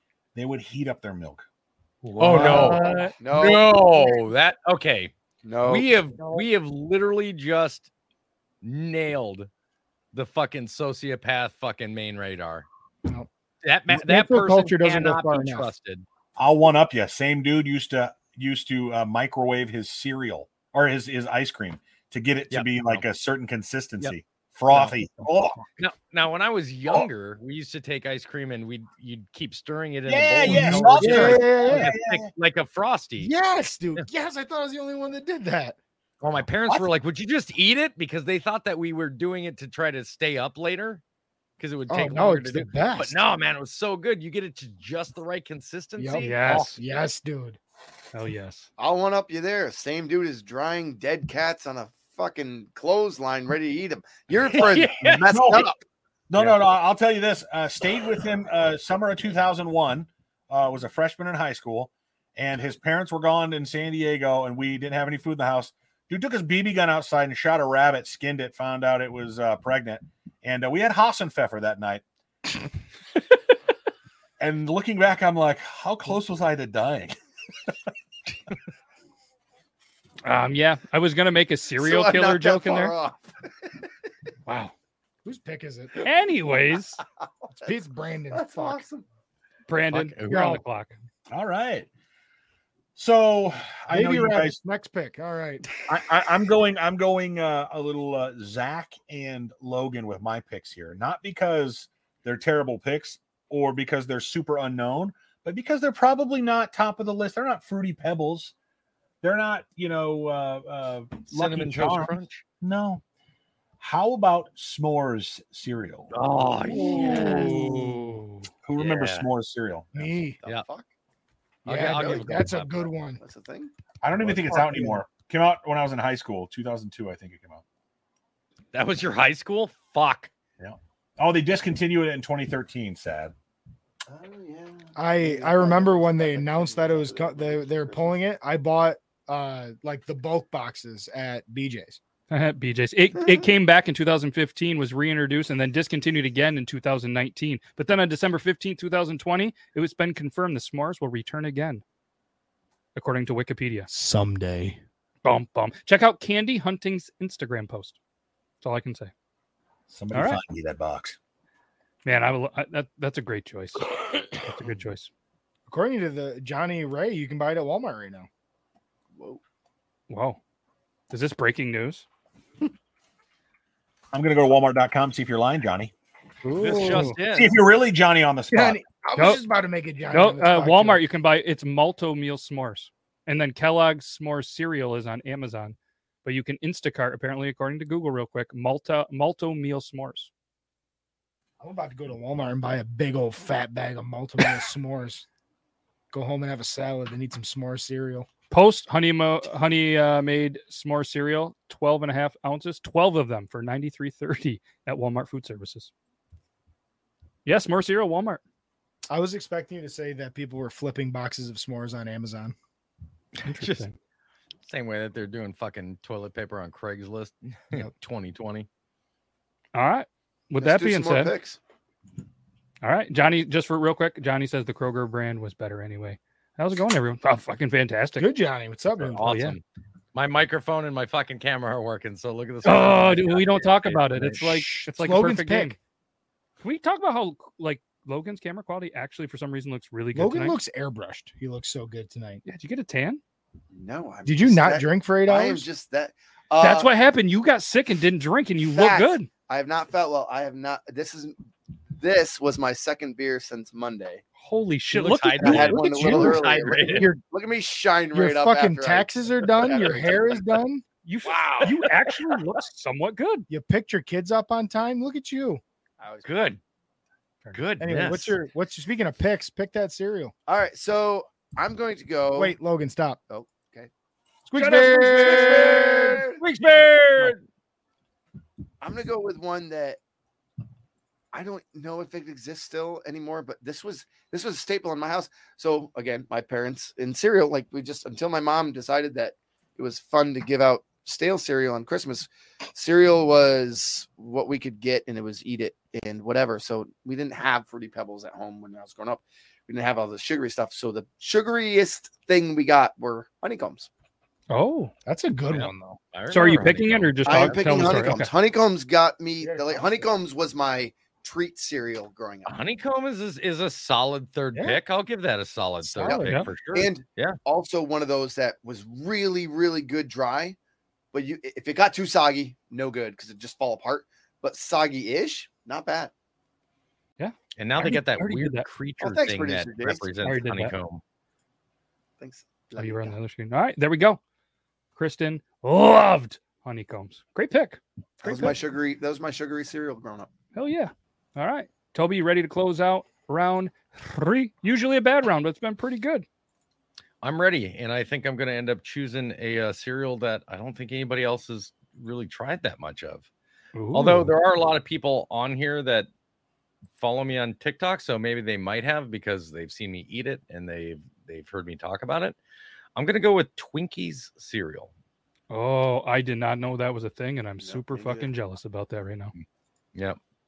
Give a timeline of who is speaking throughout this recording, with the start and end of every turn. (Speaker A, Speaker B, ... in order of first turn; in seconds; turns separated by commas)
Speaker A: 0.3-1.4, Speaker B: 2.0-3.1, Speaker C: 2.2-5.1, Speaker D: 2.2-3.1, Speaker E: 3.2-4.1, Speaker E: 5.4-5.9, Speaker C: 5.6-7.9, Speaker C: 8.6-9.5, Speaker C: 10.1-12.7, Speaker C: 13.6-16.0, Speaker D: 13.9-15.7, Speaker A: 16.4-25.6, Speaker C: 22.5-23.0, Speaker C: 25.8-33.3, Speaker A: 30.1-32.3, Speaker D: 30.4-31.9, Speaker D: 33.2-35.8, Speaker C: 36.2-41.0, Speaker C: 41.6-46.8, Speaker D: 41.9-43.2, Speaker D: 46.0-47.6, Speaker B: 46.2-46.8, Speaker B: 48.1-48.7, Speaker E: 48.8-55.8, Speaker C: 54.4-55.2, Speaker A: 55.2-55.7, Speaker A: 56.3-72.0, Speaker A: 74.4-77.1, Speaker B: 80.2-82.9, Speaker E: 81.8-83.8, Speaker B: 84.5-84.7, Speaker D: 85.2-86.0, Speaker B: 86.0-87.0, Speaker E: 87.2-87.5, Speaker D: 87.6-88.8, Speaker E: 88.3-89.0, Speaker B: 89.7-90.9, Speaker C: 89.9-90.5, Speaker D: 90.3-90.6, Speaker A: 91.3-91.9, Speaker A: 93.0-94.6, Speaker D: 93.9-95.7, Speaker A: 95.9-108.5, Speaker A: 109.2-113.0, Speaker C: 111.3-112.4, Speaker A: 113.8-116.1, Speaker C: 116.1-118.0, Speaker D: 116.7-118.2, Speaker B: 116.7-118.5, Speaker A: 118.6-120.0, Speaker C: 118.8-119.3, Speaker D: 119.9-120.4, Speaker E: 120.0-120.9, Speaker C: 121.6-122.7, Speaker D: 121.6-123.2, Speaker E: 121.9-122.4, Speaker E: 123.2-123.7, Speaker A: 124.0-127.6, Speaker D: 124.2-125.0, Speaker C: 128.7-130.3, Speaker A: 130.6-133.3, Speaker E: 134.1-138.2, Speaker D: 134.9-142.0, Speaker B: 142.3-151.8, Speaker B: 152.9-153.9, Speaker D: 153.9-154.8, Speaker B: 155.2-158.0, Speaker B: 158.6-159.1, Speaker A: 159.9-161.2, Speaker B: 160.1-160.4, Speaker B: 162.0-165.1, Speaker D: 165.7-168.3, Speaker E: 169.1-169.4, Speaker B: 170.1-170.4, Speaker B: 171.1-172.0, Speaker A: 174.1-175.9, Speaker D: 176.4-177.1, Speaker B: 176.5-177.2, Speaker C: 176.6-177.5, Speaker A: 177.3-178.8, Speaker D: 178.5-181.0, Speaker B: 179.2-179.4, Speaker B: 180.1-190.3, Speaker D: 191.6-195.2, Speaker D: 196.1-198.3, Speaker B: 198.5-205.9, Speaker B: 207.4-208.4, Speaker D: 209.1-212.5, Speaker C: 213.4-213.8, Speaker B: 213.4-213.9, Speaker C: 214.7-218.7, Speaker B: 219.7-221.3, Speaker E: 220.6-221.6, Speaker B: 222.8-228.3, Speaker D: 228.2-229.4, Speaker C: 228.9-229.6, Speaker B: 229.2-229.6, Speaker C: 230.1-234.6, Speaker B: 232.6-235.8, Speaker D: 234.4-235.8, Speaker B: 236.6-240.6, Speaker D: 240.1-242.4, Speaker B: 242.4-243.2, Speaker E: 243.7-246.9, Speaker D: 244.2-245.7, Speaker B: 246.6-249.3, Speaker E: 248.6-251.3, Speaker E: 252.0-254.2, Speaker B: 254.4-256.3, Speaker C: 254.9-257.1, Speaker E: 255.4-260.4, Speaker D: 255.9-257.2, Speaker D: 258.1-260.8, Speaker B: 261.0-263.5, Speaker C: 261.2-262.1, Speaker E: 261.3-261.7, Speaker D: 263.5-265.6, Speaker E: 266.0-266.3, Speaker C: 266.2-266.6, Speaker C: 267.5-268.3, Speaker D: 267.8-270.3, Speaker E: 270.4-272.5, Speaker D: 272.3-273.2, Speaker E: 273.3-273.9, Speaker D: 274.5-276.2, Speaker B: 274.5-275.8, Speaker E: 274.8-276.4, Speaker C: 275.3-277.4, Speaker E: 278.8-280.0, Speaker E: 281.3-303.9, Speaker B: 304.5-304.9, Speaker D: 305.1-306.0, Speaker C: 305.5-308.2, Speaker B: 306.3-308.3, Speaker E: 307.2-312.5, Speaker D: 309.4-310.1, Speaker C: 312.4-317.4, Speaker D: 315.8-316.4, Speaker E: 316.7-320.6, Speaker E: 321.1-326.1, Speaker B: 327.2-328.7, Speaker C: 327.6-331.0, Speaker E: 329.0-330.1, Speaker B: 330.2-330.8, Speaker E: 332.2-333.1, Speaker B: 332.8-334.2, Speaker B: 334.9-338.6, Speaker E: 338.2-340.3, Speaker B: 340.5-346.2, Speaker C: 347.2-353.2, Speaker B: 353.7-354.3, Speaker C: 353.9-356.1, Speaker C: 357.0-362.4, Speaker C: 362.9-364.9, Speaker B: 365.5-369.3, Speaker E: 367.6-368.3